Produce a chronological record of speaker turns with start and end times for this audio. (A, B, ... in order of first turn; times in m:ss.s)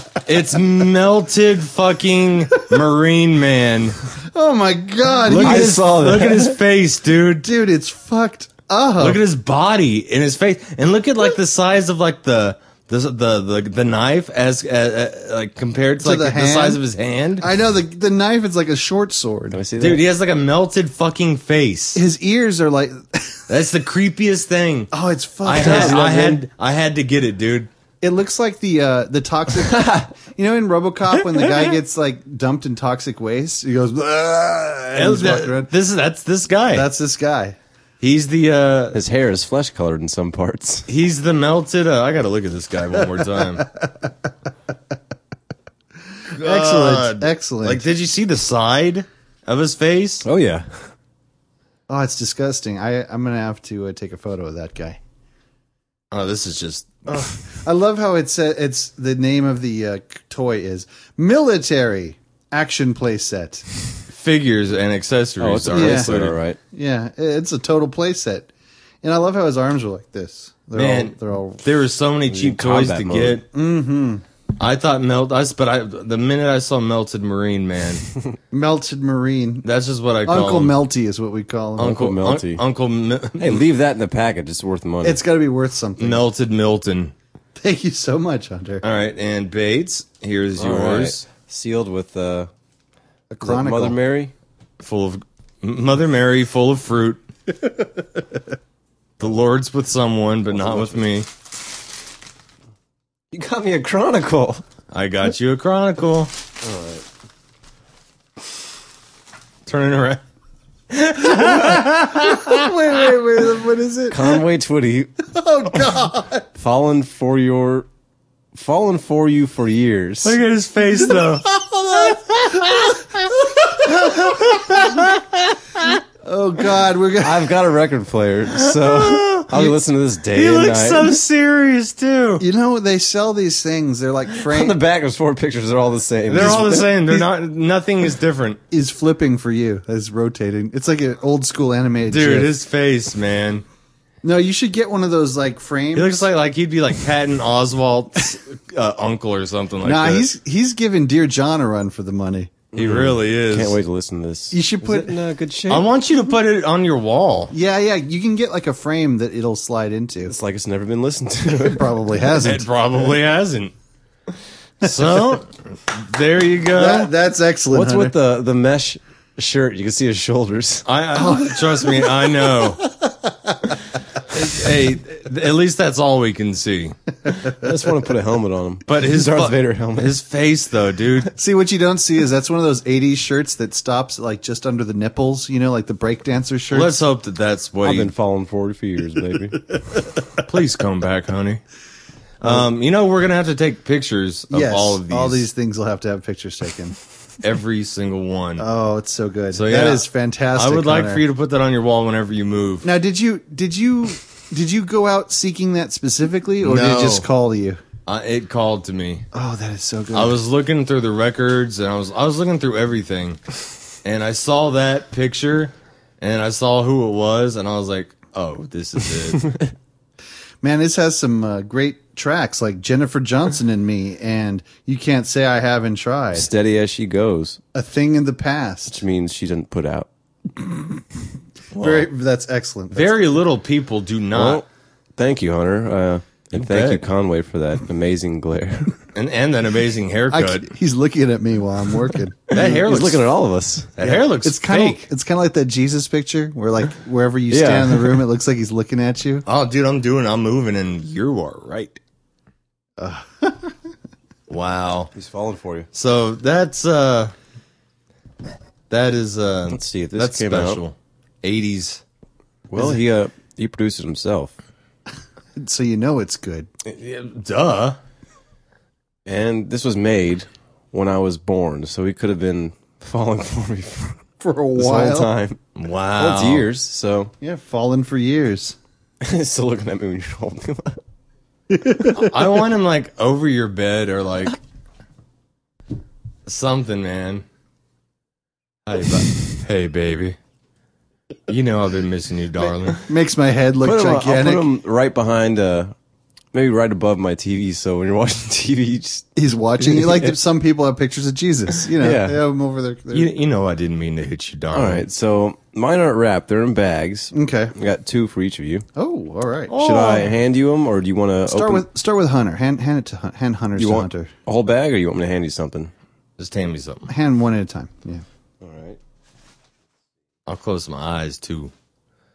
0:00.2-0:04.0 A
0:04.2-0:05.8 B
0:05.3-0:07.5 A
0:05.3-0:06.6 C
0:07.4-0:09.2 B
0:09.0-0:17.6 A
0:16.0-0:16.8 B
0:17.4-0:19.6 B
0:19.5-0:20.0 C
0:19.8-0:22.0 A
0:22.0-0:23.4 B
0:23.5-0:24.9 A
0:24.9-0:26.1 B
0:25.4-0:27.7 A
0:25.5-0:26.4 C
0:28.0-0:35.7 B
0:29.7-0:30.1 C
0:35.0-0:36.9 A
0:36.7-0:37.6 B
0:38.0-0:39.0 A
0:38.9-0:40.9 C
0:40.9-0:43.7 A
0:43.6-0:44.1 B
0:46.3-0:50.2 A
0:46.4-0:47.9 B
0:50.2-0:50.9 C
0:51.9-0:55.0 B
0:56.1-0:57.5 A
0:57.5-1:03.7 B
1:04.1-1:06.4 A
1:05.4-1:06.6 C
1:05.7-1:06.2 B
1:06.7-1:08.5 B
1:09.0-1:11.6 B
1:10.8-1:13.4 A
1:12.3-1:13.4 C
1:13.5-1:14.2 B
1:14.6-1:18.0 A
1:18.5-1:19.6 B
1:19.6-1:20.8 A
1:20.2-1:22.0 B
1:21.8-1:23.6 A
1:21.8-1:22.6 C
1:23.4-1:25.2 C
1:25.0-1:26.3 B
1:26.0-1:27.1 A
1:27.6-1:28.8 B
1:28.8-1:31.2 A
1:30.6-1:32.5 C
1:33.3-1:34.0 B
1:33.4-1:34.3 C
1:34.8-1:37.2 A
1:39.2-1:41.3 A
1:43.3-1:44.6 C
1:44.9-1:46.3 A
1:46.6-1:47.0 C
1:49.7-1:50.2 A
1:50.9-1:52.7 A
1:51.4-1:54.4 B
1:54.1-1:55.1 C
1:55.2-1:56.5 B
1:56.6-1:57.9 C
1:58.5-2:00.4 C
2:00.2-2:01.5 A
2:01.1-2:04.9 B
2:02.1-2:03.1 A
2:03.9-2:06.0 A
2:06.2-2:07.6 B
2:07.2-2:11.2 C
2:08.5-2:09.8 A
2:10.3-2:12.4 A
2:12.4-2:14.8 B
2:14.4-2:17.0 C
2:16.3-2:18.6 A
2:18.7-2:22.5 B
2:22.1-2:23.6 A
2:24.2-2:26.3 B
2:26.0-2:30.3 A
2:29.8-2:32.6 B
2:32.7-2:33.8 A
2:32.8-2:35.9 C
2:34.5-2:35.2 B
2:35.7-2:37.5 A
2:37.5-2:40.4 B
2:40.3-2:41.9 C
2:41.5-2:42.7 B
2:42.4-2:43.7 A
2:44.8-2:47.1 A
2:46.7-2:48.2 B
2:47.7-2:50.9 C
2:50.9-2:52.8 A
2:51.2-2:53.8 B
2:54.3-2:57.0 A
2:57.3-3:00.2 C
2:58.9-3:01.3 A
3:01.3-3:07.0 B
3:06.7-3:08.1 A
3:07.8-3:09.6 C
3:10.4-3:11.6 A
3:12.4-3:15.5 A
3:14.5-3:17.0 B
3:17.4-3:18.7 A
3:18.6-3:21.2 B
3:19.5-3:22.9 A
3:22.8-3:27.8 B
3:26.6-3:27.3 A
3:28.1-3:29.3 A
3:29.3-3:30.4 B
3:30.1-3:33.4 A
3:34.0-3:39.5 A
3:40.6-3:46.5 B
3:46.3-3:47.6 C
3:47.7-3:49.0 B
3:48.9-3:50.1 C
3:50.6-3:51.0 B
3:51.7-3:52.1 A
3:51.8-3:53.2 B
3:52.9-3:54.6 A
3:54.3-3:54.6 C
3:55.2-3:59.0 C
3:56.5-3:57.0 A
3:59.1-4:00.7 A
4:00.3-4:02.8 B
4:02.5-4:03.3 A
4:02.6-4:03.9 C
4:04.0-4:05.1 A
4:04.0-4:09.5 B
4:07.5-4:08.2 C
4:09.5-4:12.0 A
4:13.0-4:13.7 B
4:14.5-4:15.1 A
4:15.1-4:15.9 C
4:15.9-4:17.3 A
4:18.9-4:22.0 A
4:19.7-4:20.8 C
4:22.7-4:24.5 C
4:22.8-4:23.0 B
4:25.6-4:26.7 B
4:26.8-4:28.0 A
4:29.3-4:34.2 C
4:34.4-4:35.3 B
4:34.8-4:35.6 C
4:35.8-4:36.7 A
4:36.2-4:37.3 C
4:37.4-4:38.8 B
4:39.2-4:41.0 C
4:41.7-4:42.3 B
4:42.1-4:44.6 A
4:46.5-4:47.4 A
4:48.9-4:50.4 A
4:51.5-4:53.0 A
4:53.0-4:54.7 B
4:53.8-4:56.0 C
4:56.5-4:59.3 C
4:59.4-5:03.3 B
4:59.8-5:00.3 C
5:02.0-5:02.4 C
5:03.1-5:05.0 A
5:04.7-5:08.9 C
5:07.3-5:07.8 B
5:09.0-5:09.7 B
5:09.7-5:10.4 A
5:09.7-5:11.8 C
5:11.5-5:14.3 B
5:13.8-5:15.9 C
5:16.4-5:17.1 A
5:17.1-5:18.2 B
5:18.6-5:19.0 C
5:20.5-5:21.7 A